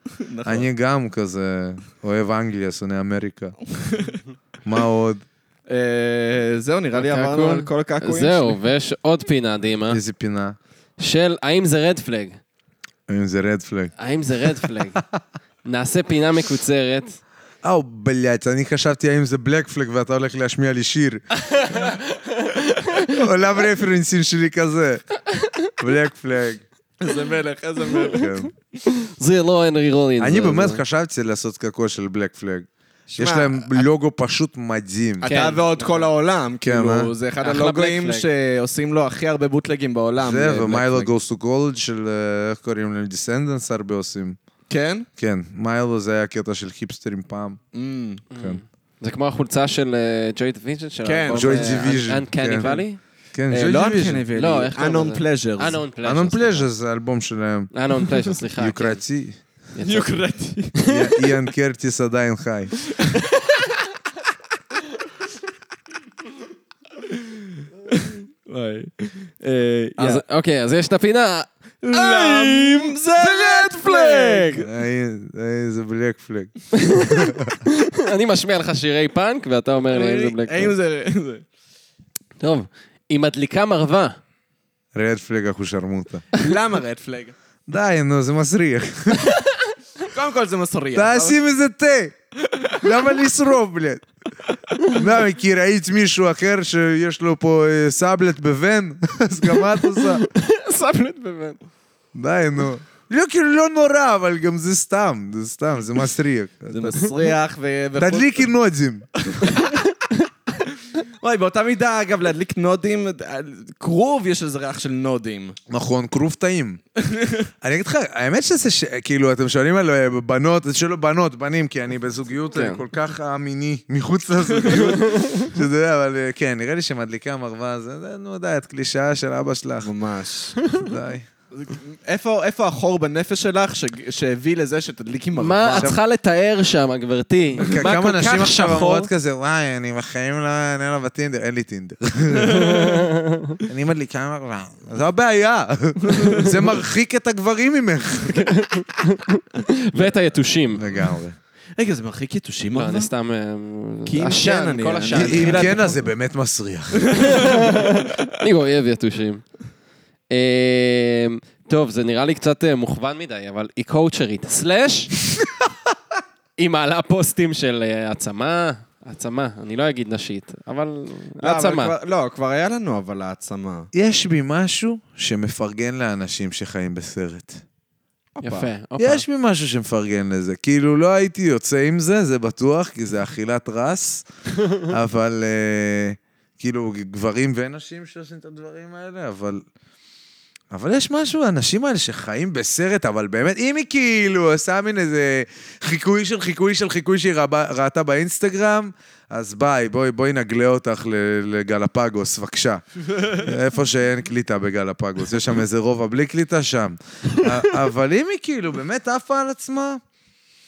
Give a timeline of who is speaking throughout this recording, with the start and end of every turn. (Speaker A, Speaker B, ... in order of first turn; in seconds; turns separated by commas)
Speaker A: 0.2-0.7, Speaker B: 0.4-3.6, Speaker A: 3.8-4.2, Speaker B: 4.7-5.2, Speaker A: 5.7-8.6, Speaker C: 7.0-10.0, Speaker B: 9.9-10.6, Speaker C: 11.0-12.4, Speaker B: 13.1-13.9, Speaker C: 14.0-15.0, Speaker B: 14.4-15.1, Speaker C: 15.6-17.2, Speaker B: 17.6-21.2, Speaker C: 21.6-23.0, Speaker B: 23.0-25.0, Speaker B: 25.8-26.6, Speaker A: 27.0-28.4, Speaker B: 28.0-28.5, Speaker C: 28.9-30.8, Speaker B: 30.2-35.3, Speaker A: 33.1-33.9, Speaker A: 35.2-41.1, Speaker C: 35.2-36.1, Speaker B: 36.6-37.1, Speaker C: 37.4-38.3, Speaker B: 40.2-44.4, Speaker A: 44.7-45.1, Speaker B: 45.2-47.6, Speaker A: 47.7-48.2, Speaker C: 48.3-53.0, Speaker A: 51.0-52.0, Speaker B: 51.3-52.7, Speaker B: 53.3-54.2, Speaker A: 53.5-55.8, Speaker C: 54.3-56.7, Speaker B: 56.0-57.7, Speaker C: 57.7-59.0, Speaker B: 58.6-59.4, Speaker C: 59.8-60.3, Speaker A: 59.8-61.2, Speaker B: 60.9-62.8, Speaker A: 67.1-70.2, Speaker C: 70.0-74.6, Speaker A: 71.8-74.7, Speaker B: 74.6-77.6, Speaker C: 76.8-80.8, Speaker A: 79.9-81.4, Speaker C: 82.4-84.2, Speaker B: 84.9-86.3, Speaker A: 86.4-87.3, Speaker B: 87.7-89.4, Speaker A: 90.0-91.4, Speaker B: 90.9-92.2, Speaker B: 92.8-94.0, Speaker B: 94.8-100.2, Speaker C: 100.1-101.6, Speaker B: 102.1-107.1, Speaker A: 106.7-108.5, Speaker B: 108.0-109.1, Speaker A: 109.2-109.8, Speaker A: 111.0-115.6, Speaker B: 115.7-116.8, Speaker A: 117.0-117.5, Speaker B: 117.6-129.9, Speaker C: 122.5-122.8, Speaker A: 124.6-124.9, Speaker A: 129.8-130.6, Speaker B: 130.7-131.3, Speaker A: 131.5-135.9, Speaker C: 135.4-139.1, Speaker B: 137.6-143.0, Speaker C: 142.8-143.6, Speaker B: 143.6-148.5, Speaker A: 146.1-146.4, Speaker C: 148.3-150.9, Speaker B: 150.8-151.4, Speaker A: 151.8-153.1, Speaker C: 152.8-155.9, Speaker A: 154.1-156.0, Speaker B: 155.1-157.3, Speaker A: 157.0-157.5, Speaker C: 157.2-159.4, Speaker C: 160.3-165.1, Speaker C: 166.6-171.9, Speaker A: 171.4-173.9, Speaker B: 173.9-177.6, Speaker A: 178.4-178.7, Speaker C: 178.4-179.2, Speaker B: 179.0-189.6, Speaker B: 190.7-210.0